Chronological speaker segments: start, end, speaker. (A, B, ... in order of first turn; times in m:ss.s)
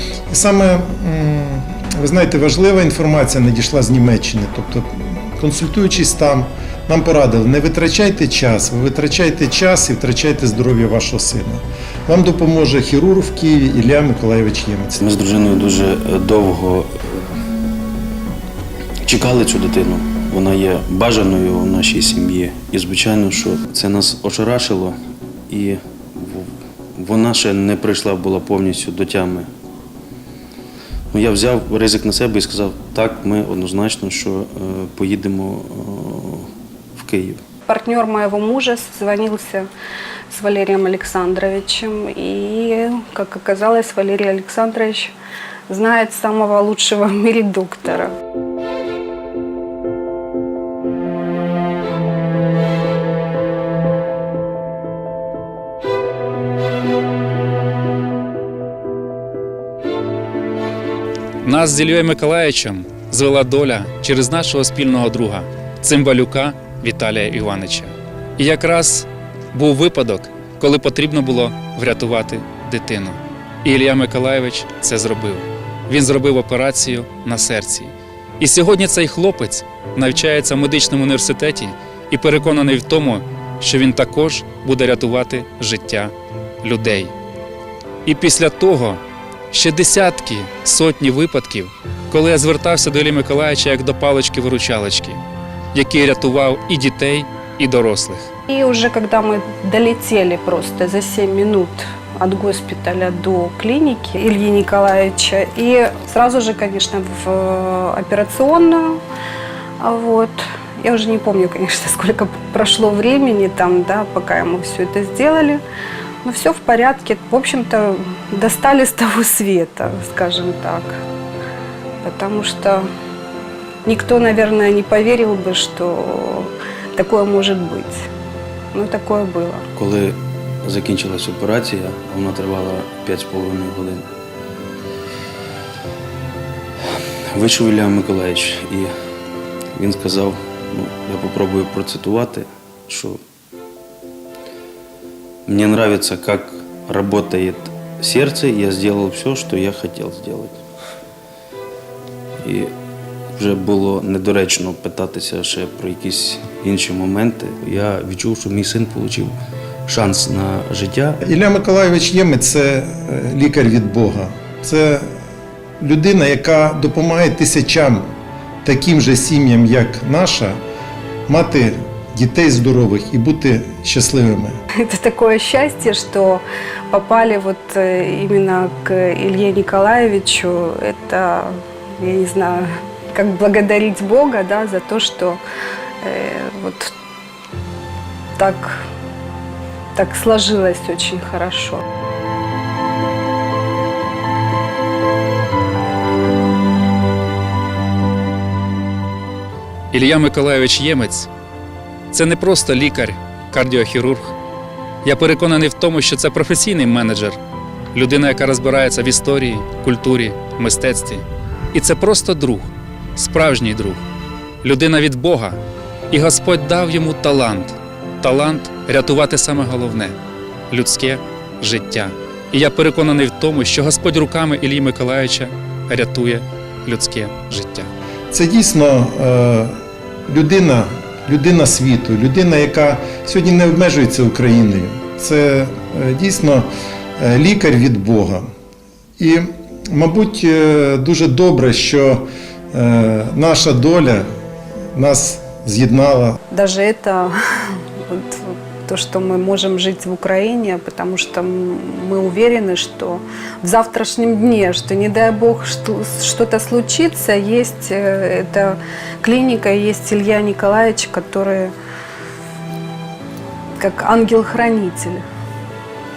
0:00.3-0:15.0 A
0:15.0-0:17.4 B
0:19.0-0:25.0 B
0:25.5-0:29.5 B
0:31.1-0:37.4 B
0:37.7-0:39.7 C
0:40.3-0:45.1 C
0:45.7-0:48.1 C
1:01.4-1:27.1 D
1:28.0-1:35.2 D
1:35.7-1:38.3 D
1:38.5-1:49.0 C
1:49.8-1:55.6 C
1:56.2-2:01.0 C
2:02.0-2:02.8 C
2:03.8-2:08.1 C
2:08.7-2:09.6 C
2:09.8-2:14.1 B
2:17.3-2:18.9 B
2:19.7-2:23.2 B
2:25.4-2:30.6 B
2:32.4-2:32.7 B
2:33.3-2:41.2 B
2:41.2-2:45.1 A
2:45.8-2:48.1 A
2:48.6-2:50.6 A
2:51.3-2:54.6 A
2:54.8-3:05.4 C
3:06.0-3:06.9 C
3:08.4-3:08.8 C
3:09.9-3:11.8 C
3:19.9-3:21.3 D
3:22.1-3:24.3 D
3:25.0-3:27.4 D
3:27.9-3:34.0 D
3:34.6-3:35.6 D
3:36.1-3:40.2 D
3:40.7-3:47.9 D
3:48.3-3:56.7 A
3:57.2-3:58.4 A
3:59.2-4:04.2 A
4:04.9-4:06.4 A
4:06.5-4:21.7 C
4:23.8-4:25.2 C